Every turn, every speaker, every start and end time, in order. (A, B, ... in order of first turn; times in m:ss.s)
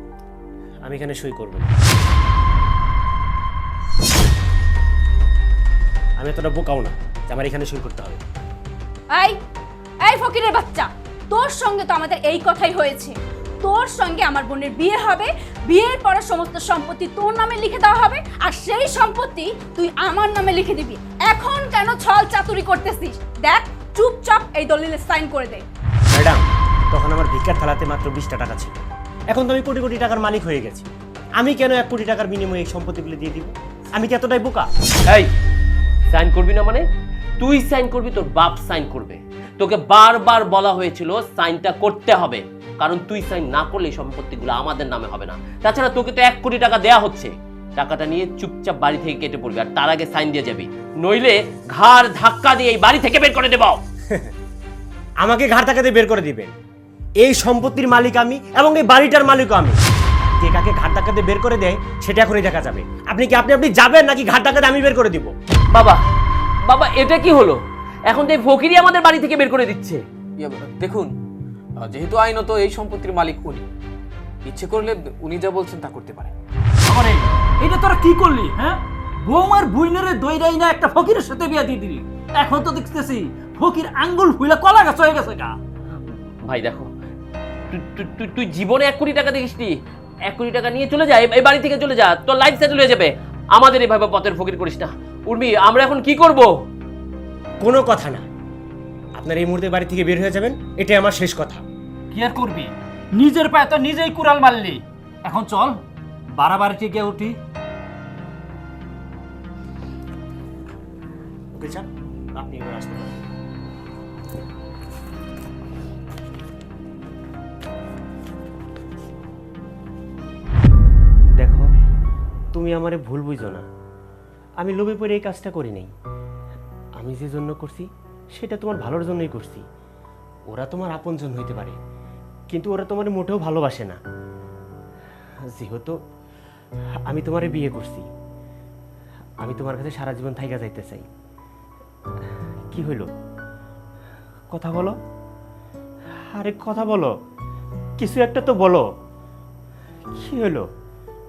0:00.8-0:01.7 A
0:06.2-0:08.2 A
0:10.0-0:25.6 B
0:26.1-0:28.7 A
0:29.3-0:34.7 A
0:35.0-0:35.3 C
0:36.1-0:36.8 C
0:37.4-0:53.8 C
0:55.2-0:56.5 A
0:57.2-1:05.3 A
1:05.7-1:06.0 C
1:06.6-1:10.0 C
1:10.4-1:11.1 D
1:11.8-1:13.6 D
1:14.4-1:16.3 D
1:16.8-1:25.6 E
1:26.5-1:26.9 C
1:27.7-1:29.7 C
1:30.3-1:36.5 C
1:37.6-1:38.2 A
1:39.2-1:41.6 A
1:42.1-1:45.8 E
1:46.4-1:47.4 E
1:51.5-1:53.1 A
2:01.4-2:01.7 A
2:02.5-2:03.6 A
2:04.6-2:05.9 A
2:07.0-2:09.6 A
2:10.5-2:11.8 A
2:12.5-2:14.0 A
2:15.5-2:16.0 A
2:17.1-2:18.0 A
2:19.4-2:21.1 A
2:22.7-2:23.1 A
2:24.5-2:25.0 A
2:26.3-2:27.1 A
2:28.0-2:28.9 A
2:30.1-2:30.7 A